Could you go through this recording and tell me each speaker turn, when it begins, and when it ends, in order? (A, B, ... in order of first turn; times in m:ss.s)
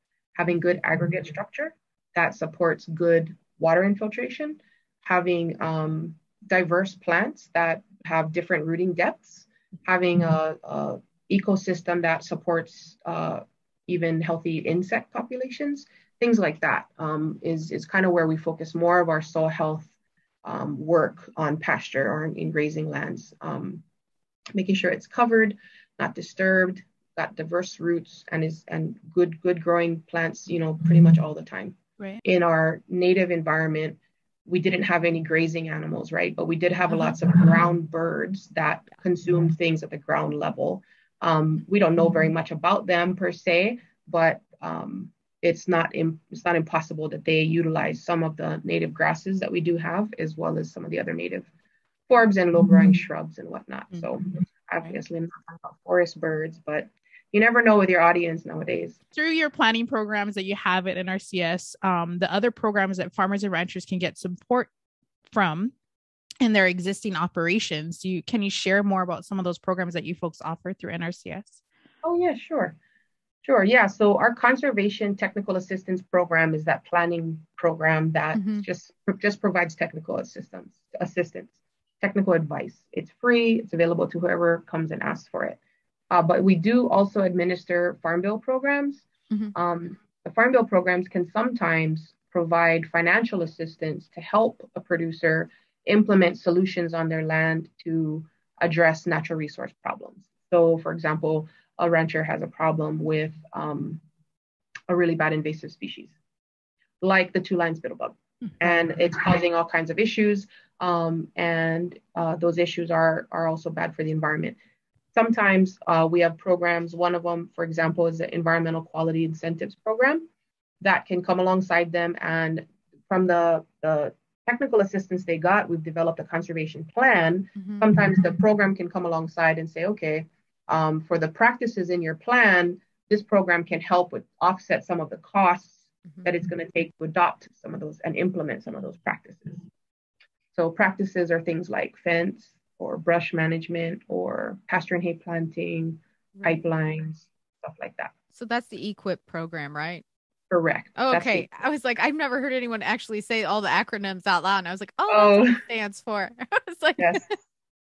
0:00.4-0:19.9 A
0:20.4-0:23.8 A
0:24.5-0:51.5 A
0:52.1-0:59.0 A
0:59.1-1:04.7 B
1:05.3-1:05.7 B
1:06.4-1:11.6 B
1:12.0-1:12.8 A
1:13.4-1:25.6 A
1:18.3-1:18.6 C
1:26.1-1:44.0 A
1:44.9-1:46.1 A
1:47.0-1:54.6 A
1:55.2-2:00.3 A
2:00.8-2:19.7 A
2:07.6-2:07.9 C
2:20.5-2:28.1 A
2:26.4-2:26.6 C
2:28.3-2:30.0 C
2:30.5-2:31.5 A
2:31.0-2:37.2 C
2:35.1-2:35.6 A
2:37.0-2:37.3 A